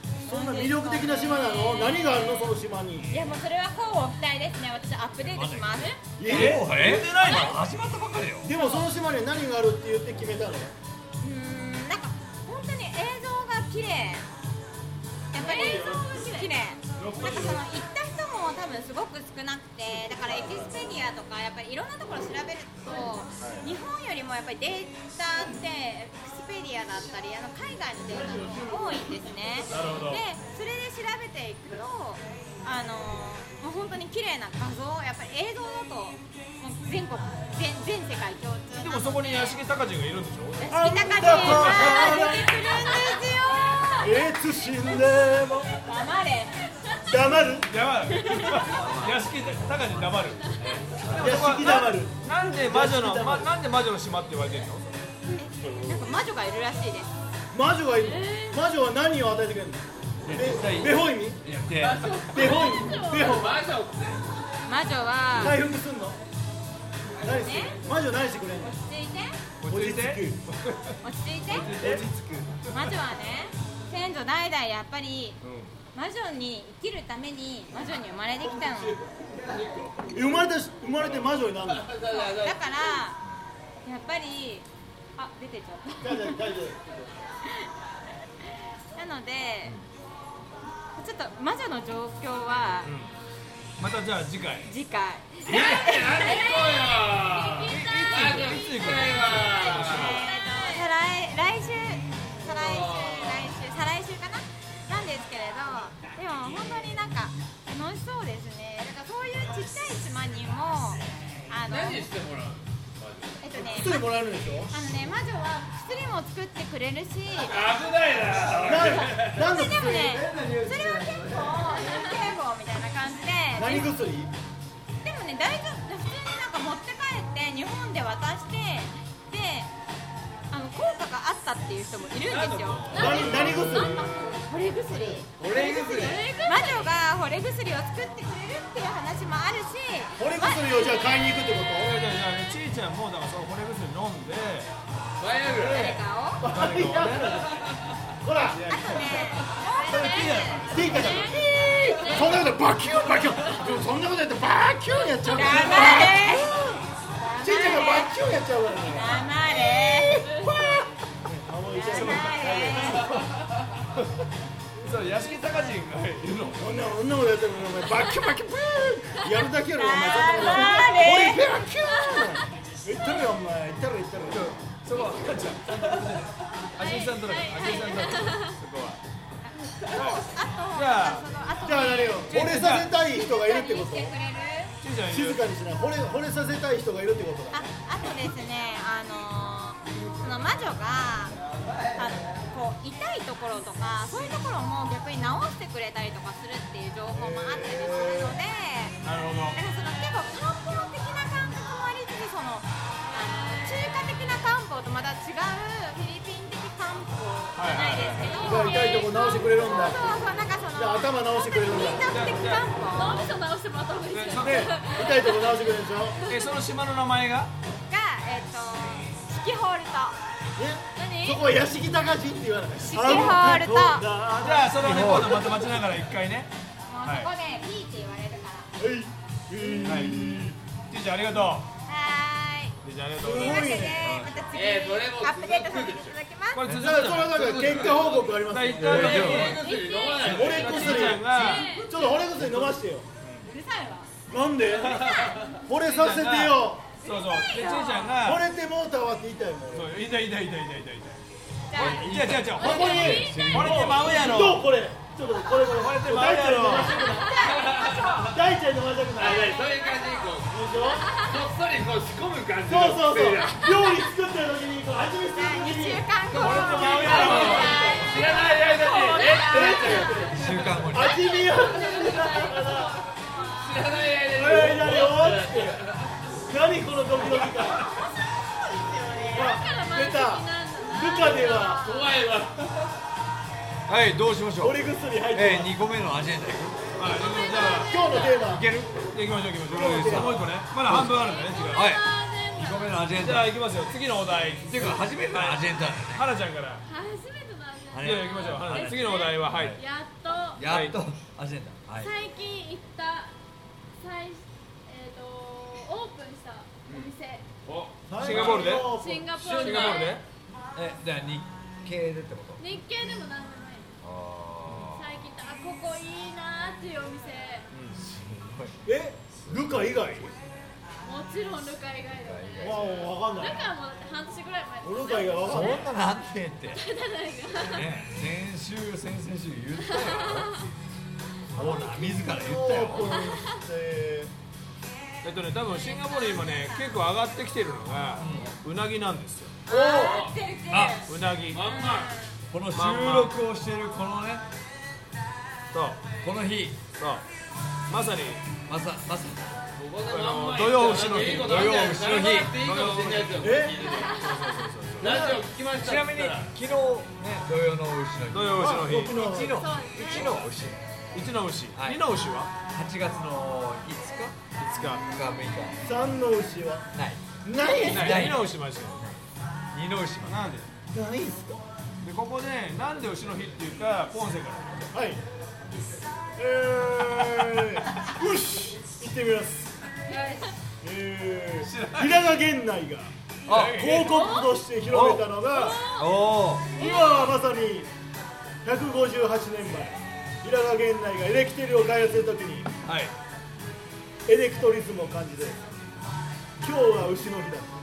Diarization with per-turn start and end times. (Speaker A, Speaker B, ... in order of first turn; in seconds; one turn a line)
Speaker A: 0.1-3.1
Speaker B: 0.3-2.3
Speaker B: 3.1-6.0
Speaker C: 5.3-8.5
Speaker A: 6.2-7.4
Speaker D: 6.2-7.6
Speaker A: 8.4-10.7
Speaker E: 8.6-8.8
Speaker B: 11.2-14.2
Speaker B: 15.3-39.6
Speaker E: 15.3-16.5
Speaker D: 15.6-16.1
Speaker D: 16.9-17.6
Speaker D: 20.2-20.7
Speaker D: 23.4-23.7
Speaker D: 29.7-30.2
Speaker D: 38.7-42.2
Speaker B: 40.6-44.1
Speaker A: 40.7-42.5
Speaker E: 42.0-43.1
Speaker A: 44.0-45.7
Speaker B: 45.8-46.6
Speaker A: 47.0-47.7
Speaker D: 47.6-50.4
Speaker E: 48.1-48.5
Speaker C: 48.7-49.2
Speaker C: 50.3-51.5
Speaker D: 51.0-54.9
Speaker A: 51.1-53.5
Speaker B: 55.2-57.1
Speaker A: 57.5-61.5
Speaker E: 58.0-58.6
Speaker D: 60.2-62.2
Speaker F: 61.6-64.3
Speaker E: 62.0-63.5
Speaker A: 62.2-63.6
Speaker B: 64.7-65.6
Speaker A: 65.3-66.2
Speaker A: 67.2-68.7
Speaker B: 67.3-67.8
Speaker B: 68.6-69.4
Speaker D: 69.6-71.0
Speaker A: 69.7-70.4
Speaker B: 71.0-71.7
Speaker D: 71.5-72.1
Speaker A: 71.6-72.5
Speaker D: 72.7-72.9
Speaker B: 72.7-75.4
Speaker D: 75.4-75.7
Speaker B: 75.9-79.0
Speaker F: 78.6-80.1
Speaker A: 80.1-81.9
Speaker D: 81.0-81.3
Speaker F: 81.7-82.9
Speaker B: 82.1-83.2
Speaker B: 83.8-86.4
Speaker A: 86.0-87.0
Speaker B: 87.4-87.7
Speaker B: 88.9-89.8
Speaker B: 90.9-92.9
Speaker D: 92.8-93.1
Speaker D: 93.8-94.7
Speaker B: 94.7-96.4
Speaker F: 95.5-100.2
Speaker E: 96.2-100.8
Speaker C: 97.7-99.7
Speaker D: 99.7-100.2
Speaker B: 99.7-112.1
Speaker F: 102.4-103.5
Speaker F: 111.6-113.4
Speaker B: 113.4-114.1
Speaker A: 113.5-114.8
Speaker B: 114.7-117.6
Speaker F: 117.4-119.4
Speaker A: 118.7-120.2
Speaker B: 118.9-123.9
Speaker C: 120.1-121.7
Speaker A: 123.5-124.3
Speaker B: 125.0-129.7
Speaker B: 130.5-135.4
Speaker D: 132.3-133.8
Speaker F: 132.4-133.4
Speaker E: 132.9-134.2
Speaker A: 132.9-134.3
Speaker F: 135.4-136.3
Speaker E: 135.4-136.9
Speaker B: 136.4-141.0
Speaker A: 140.2-141.9
Speaker D: 141.7-144.7
Speaker F: 145.2-146.0
Speaker B: 145.5-146.4
Speaker A: 146.4-147.6
Speaker D: 146.4-147.4
Speaker A: 148.2-148.7
Speaker D: 148.4-151.3
Speaker B: 148.7-151.8
Speaker E: 150.2-152.4
Speaker A: 150.7-156.8
Speaker B: 155.2-156.6
Speaker B: 157.2-158.2
Speaker A: 157.4-163.2
Speaker B: 158.8-160.4
Speaker E: 160.2-160.8
Speaker B: 161.7-163.1
Speaker D: 161.9-162.5
Speaker D: 164.8-166.7
Speaker E: 165.5-165.8
Speaker A: 166.6-174.5
Speaker B: 169.8-171.4
Speaker E: 172.1-172.4
Speaker D: 174.3-179.0
Speaker E: 176.8-178.6
Speaker B: 179.4-182.3
Speaker D: 179.9-180.2
Speaker D: 180.7-181.2
Speaker A: 181.6-184.1
Speaker D: 182.3-183.0
Speaker B: 183.1-184.7
Speaker D: 184.8-185.4
Speaker A: 185.1-187.7
Speaker B: 187.5-191.4
Speaker B: 191.9-199.0
Speaker A: 197.1-198.3
Speaker D: 199.0-199.6
Speaker B: 199.5-213.2
Speaker D: 207.6-208.4
Speaker E: 207.7-209.4
Speaker A: 208.4-210.1
Speaker A: 210.7-212.1
Speaker D: 212.0-212.7
Speaker E: 212.9-215.6
Speaker D: 214.1-214.9
Speaker A: 214.4-216.2
Speaker E: 216.2-216.5
Speaker D: 216.3-217.5
Speaker B: 217.9-220.2
Speaker A: 220.6-225.7
Speaker E: 220.9-221.4
Speaker B: 222.8-224.1
Speaker D: 224.4-226.5
Speaker C: 224.8-225.4
Speaker B: 226.8-228.7
Speaker D: 227.0-227.3
Speaker A: 228.8-230.6
Speaker B: 229.6-230.1
Speaker D: 229.8-231.7
Speaker B: 231.9-236.7
Speaker D: 232.8-233.8
Speaker A: 233.2-234.1
Speaker C: 234.0-234.5
Speaker F: 234.5-236.2
Speaker D: 236.5-237.4
Speaker C: 236.7-237.1
Speaker A: 236.8-239.4
Speaker F: 237.3-238.5
Speaker D: 238.4-239.6
Speaker C: 238.8-239.6
Speaker F: 239.1-240.8
Speaker B: 239.3-242.2
Speaker E: 239.6-240.2
Speaker D: 240.2-243.5
Speaker A: 240.2-243.1
Speaker E: 240.7-242.1
Speaker B: 243.5-244.1
Speaker A: 244.3-246.9
Speaker D: 244.7-245.2
Speaker F: 245.1-245.7
Speaker D: 245.8-248.5
Speaker B: 247.0-248.2
Speaker A: 248.2-249.9
Speaker D: 249.7-251.2
Speaker E: 251.7-253.7
Speaker C: 251.7-254.1
Speaker D: 251.7-254.7
Speaker A: 252.6-257.3
Speaker D: 255.7-257.1
Speaker B: 257.1-258.1
Speaker F: 257.3-258.4
Speaker A: 258.2-259.6
Speaker F: 259.1-263.8
Speaker B: 259.4-259.9
Speaker A: 260.5-261.2
Speaker A: 262.6-268.2
Speaker B: 265.3-268.1
Speaker F: 266.3-271.0
Speaker D: 266.4-267.8
Speaker E: 267.4-273.9
Speaker A: 269.3-273.0
Speaker C: 270.3-271.2
Speaker F: 273.5-276.1
Speaker A: 274.3-275.8
Speaker A: 276.5-277.9
Speaker B: 279.1-279.4
Speaker E: 279.3-282.1
Speaker A: 279.3-281.9
Speaker F: 281.8-282.9
Speaker C: 283.9-284.8
Speaker A: 284.6-285.7
Speaker C: 285.3-286.8
Speaker D: 287.0-288.1
Speaker E: 287.0-288.5
Speaker A: 287.5-288.7
Speaker C: 288.3-289.0
Speaker D: 289.1-291.9
Speaker C: 289.6-293.5
Speaker A: 289.7-290.5
Speaker E: 291.1-293.1
Speaker D: 293.2-296.8
Speaker C: 294.6-296.3
Speaker E: 296.8-300.6
Speaker C: 297.9-299.8
Speaker D: 298.0-299.8
Speaker C: 300.5-302.1
Speaker D: 300.7-301.0
Speaker E: 302.0-303.3
Speaker E: 304.0-307.4
Speaker F: 306.9-307.1
Speaker F: 307.6-308.7
Speaker A: 308.1-309.4
Speaker D: 308.1-310.2
Speaker E: 308.7-310.2
Speaker F: 309.4-310.1
Speaker C: 310.7-312.8
Speaker E: 312.6-313.9
Speaker C: 314.0-315.1
Speaker E: 314.9-317.7
Speaker D: 317.7-318.0
Speaker C: 317.9-318.8
Speaker A: 318.8-320.3
Speaker C: 319.4-319.9
Speaker E: 321.0-322.8
Speaker C: 322.1-323.1
Speaker A: 322.6-323.7
Speaker E: 323.3-325.8
Speaker A: 324.8-325.9
Speaker C: 325.4-326.8
Speaker E: 326.7-327.9
Speaker C: 327.5-330.6
Speaker E: 329.8-330.7
Speaker C: 331.6-333.1
Speaker A: 331.6-334.3
Speaker E: 333.1-333.4
Speaker D: 335.2-339.6
Speaker C: 338.2-338.5
Speaker B: 339.6-342.4
Speaker F: 339.7-340.4
Speaker C: 339.7-341.0
Speaker D: 341.1-341.6
Speaker F: 341.4-342.1
Speaker C: 342.5-344.4
Speaker D: 342.7-343.4
Speaker D: 345.7-346.1
Speaker C: 346.2-346.8
Speaker D: 347.0-347.2
Speaker D: 347.9-348.5
Speaker C: 348.6-349.6
Speaker F: 349.7-354.2
Speaker D: 350.0-351.8
Speaker C: 351.3-352.6
Speaker D: 352.6-355.2
Speaker A: 353.4-353.9
Speaker E: 353.7-354.7
Speaker F: 355.0-356.5
Speaker C: 355.0-360.8
Speaker D: 358.3-359.2
Speaker A: 358.6-359.6
Speaker E: 359.4-360.4
Speaker D: 361.1-362.5
Speaker C: 361.7-362.0
Speaker C: 362.7-364.4
Speaker D: 364.6-365.1
Speaker C: 365.1-365.8
Speaker A: 365.8-366.9
Speaker C: 366.9-367.4
Speaker A: 367.4-368.3
Speaker D: 367.8-369.1
Speaker C: 367.9-368.5
Speaker C: 369.7-370.4
Speaker D: 370.2-370.7
Speaker A: 370.9-371.6
Speaker D: 372.0-374.9
Speaker A: 374.9-375.2
Speaker A: 376.4-379.7
Speaker E: 380.1-380.6
Speaker A: 380.8-383.1
Speaker D: 381.6-382.2
Speaker C: 383.5-383.9
Speaker D: 383.5-384.2
Speaker A: 383.7-385.8
Speaker E: 384.0-384.6
Speaker C: 384.9-386.7
Speaker E: 385.5-386.1
Speaker E: 386.7-387.3
Speaker A: 386.7-387.9
Speaker A: 388.6-392.7
Speaker D: 392.9-393.1
Speaker A: 394.2-395.6
Speaker A: 396.6-397.7